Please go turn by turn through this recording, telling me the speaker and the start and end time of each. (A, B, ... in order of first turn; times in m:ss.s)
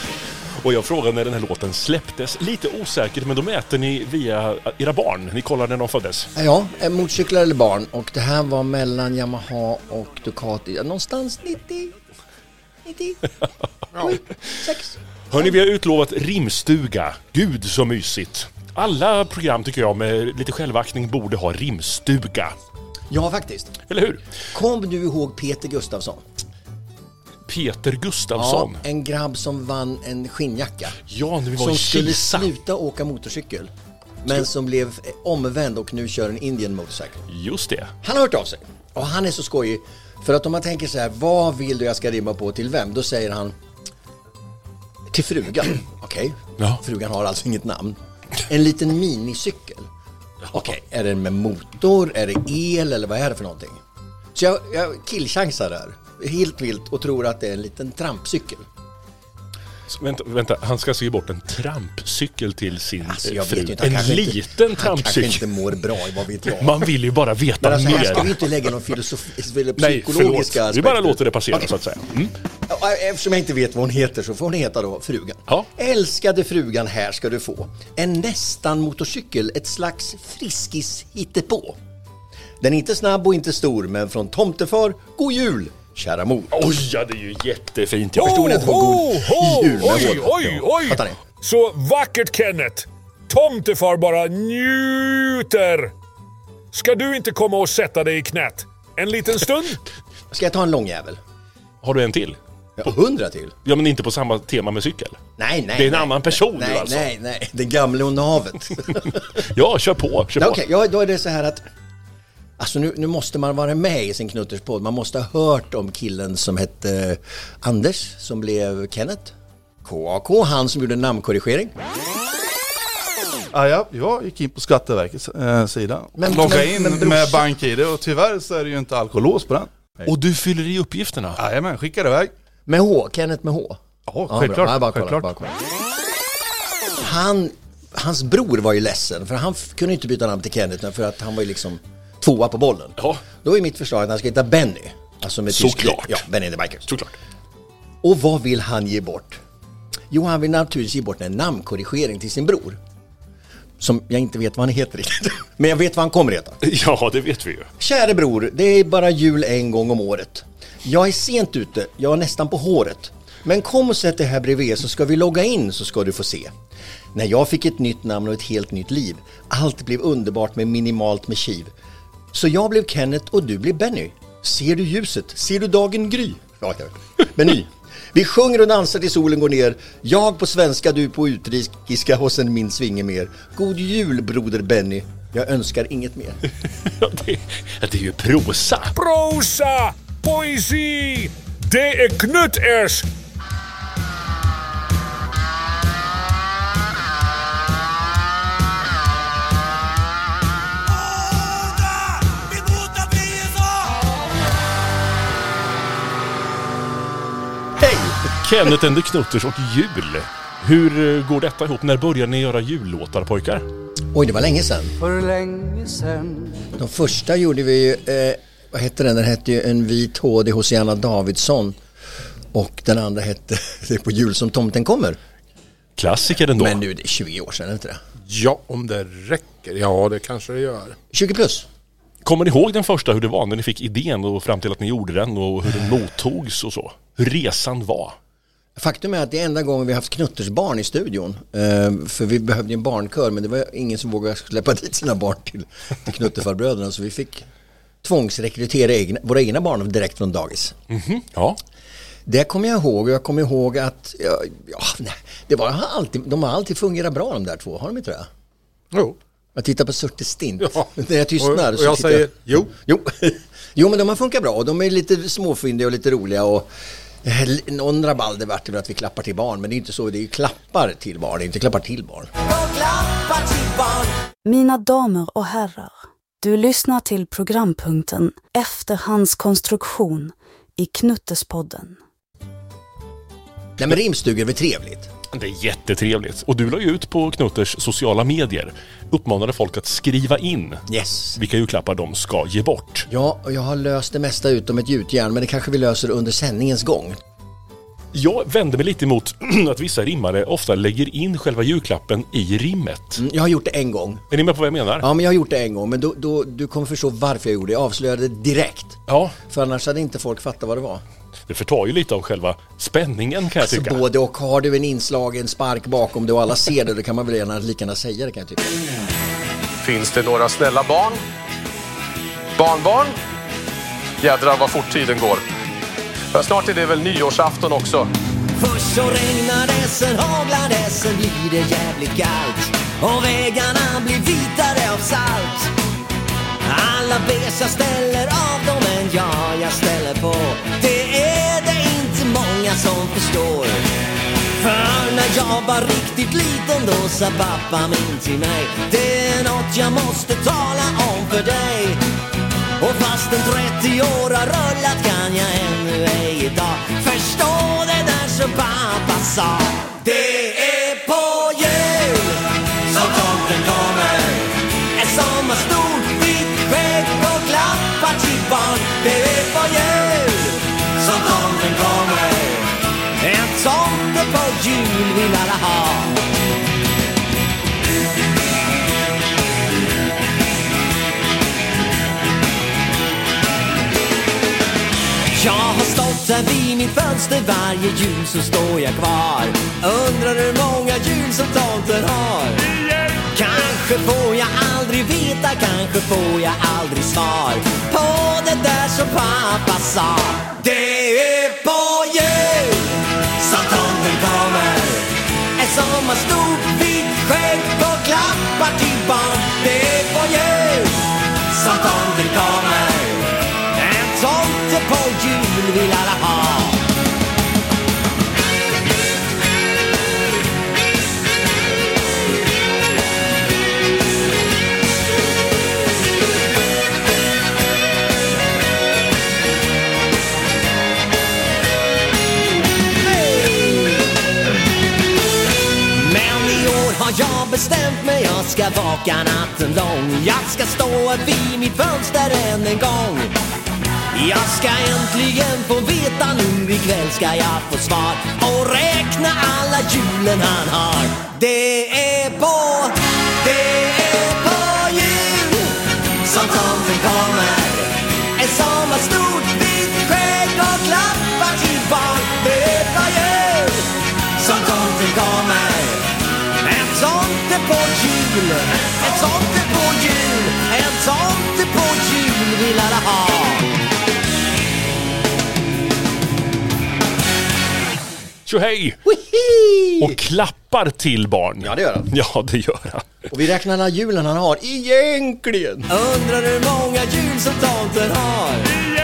0:00.6-0:06.3 A
0:06.4-0:12.0 B
0:12.8-0:13.2 B
0:14.0-0:15.6 B
0:15.3-0:22.6 A
0:23.1-0:23.8 B
0:23.9-0:24.2 A
0:24.5-0:26.2 B
0:27.5-0:28.8 A
0:28.4-0:31.0 B
0:31.1-0:32.5 A
0:31.6-0:33.7 B
0:34.2-0:37.3 B
0:37.3-0:37.9 A
0:38.0-0:43.6 B
0:45.1-0:49.9 B
0:50.5-0:53.8 B
0:54.4-0:58.7 B
0:59.9-1:05.5 A
1:03.0-1:06.9 B
1:06.6-1:08.4 A
1:07.6-1:11.7 B
1:09.8-1:12.3 A
1:12.7-1:21.8 B
1:22.6-1:26.5 B
1:26.5-1:28.5 A
1:28.2-1:31.2 B
1:28.2-1:35.9 C
1:36.7-1:39.8 C
1:40.3-1:41.2 B
1:41.8-1:42.4 A
1:42.8-1:43.6 B
1:43.6-1:45.2 A
1:45.4-1:49.2 B
1:45.8-1:47.1 A
1:49.4-1:50.6 A
1:50.4-1:51.6 B
1:52.6-2:01.7 B
2:03.5-2:09.7 D
2:06.2-2:07.5 B
2:10.1-2:11.4 A
2:11.4-2:12.3 D
2:12.7-2:15.5 B
2:14.1-2:15.3 D
2:17.0-2:26.9 B
2:25.5-2:26.2 A
2:26.9-2:27.1 A
2:28.0-2:29.4 B
2:30.1-2:32.8 B
2:33.8-2:36.6 B
2:36.6-2:37.7 A
2:37.8-2:46.5 B
2:47.1-2:51.7 B
2:52.3-3:06.4 B
3:06.9-3:09.0 A
3:09.0-3:13.1 C
3:27.8-3:28.2 B
3:28.4-3:33.6 A
3:34.1-3:35.0 B
3:36.8-3:41.8 B
3:42.5-3:45.2 B
3:46.0-3:46.8 A
3:46.6-3:48.0 B
3:48.3-3:51.0 E
3:51.1-3:51.7 B
3:52.2-3:58.2 A
3:58.8-4:07.5 B
4:08.0-4:10.8 B
4:10.9-4:11.6 A
4:12.3-4:18.3 B
4:19.6-4:26.7 B
4:20.6-4:20.9 E
4:21.4-4:22.7 E
4:27.2-4:32.3 B
4:32.4-4:34.1 F
4:34.4-4:42.0 G
4:43.8-4:45.1 B
4:45.3-4:53.1 A
4:50.9-4:51.4 B
4:53.1-4:57.2 B
4:58.1-5:03.2 A
5:03.2-5:04.2 B
5:04.3-5:05.1 A
5:05.0-5:11.0 B
5:09.1-5:09.4 A
5:11.5-5:14.0 A
5:13.6-5:18.7 B
5:19.8-5:21.2 H
5:22.6-5:23.2 H
5:24.2-5:25.4 H
5:26.3-5:28.1 H
5:28.6-5:35.7 F
5:36.6-5:43.9 F
5:44.6-5:52.0 F
5:52.8-6:16.2 F
6:25.3-6:32.7 F
6:33.3-6:56.8 F
7:13.0-7:14.0 F
7:15.9-7:23.3 F
7:24.1-7:53.7 F
7:58.5-7:59.0 A
7:59.1-8:00.2 B
8:00.0-8:03.1 A
8:01.6-8:02.1 B
8:03.3-8:05.9 B
8:05.9-8:08.8 F